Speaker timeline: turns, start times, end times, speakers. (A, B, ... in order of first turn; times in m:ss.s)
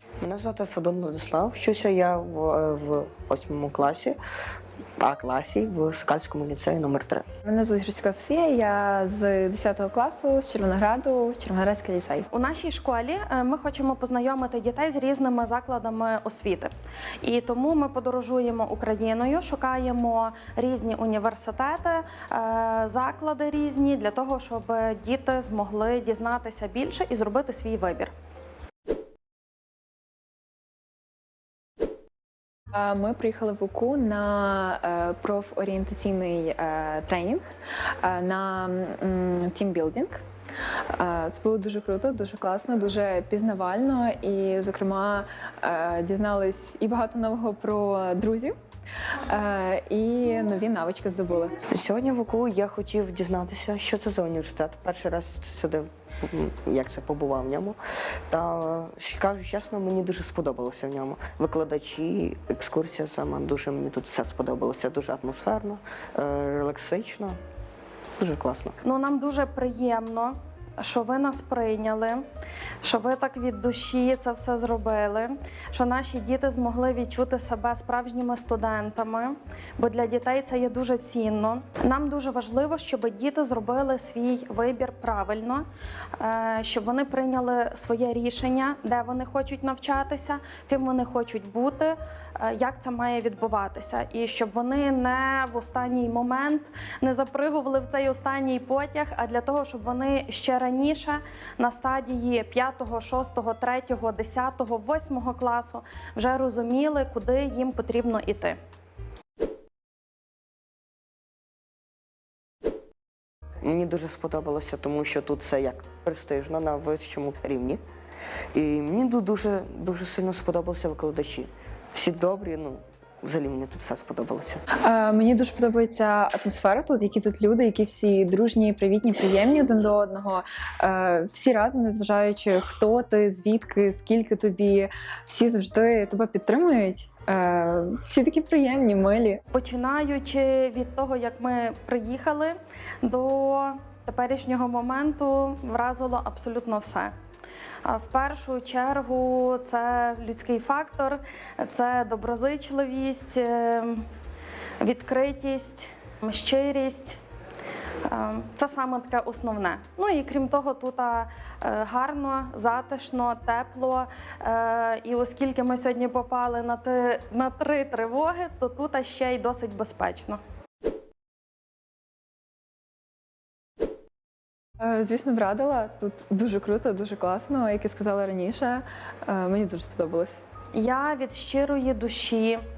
0:00.2-0:04.2 A
0:05.0-0:07.2 A
0:07.4-0:12.3 B
0:12.3-0:16.7 C
0:17.2-0:28.1 C
0:32.7-0:37.4 B
0:38.0-0:40.2 B
0:40.9-0:48.6 B
0:49.1-0:51.6 B
0:51.7-0:57.8 A
0:58.3-1:07.4 A
1:08.2-1:08.8 A
1:08.8-1:12.2 C
1:12.8-1:25.7 C
1:26.2-1:48.6 C
1:53.6-1:57.8 A
1:58.5-2:04.6 A
2:04.8-2:19.4 B
2:19.5-2:27.1 C
2:27.8-2:34.0 C
2:34.8-2:37.2 C
2:38.0-2:50.4 C
2:54.8-3:00.4 B
3:00.7-3:02.6 C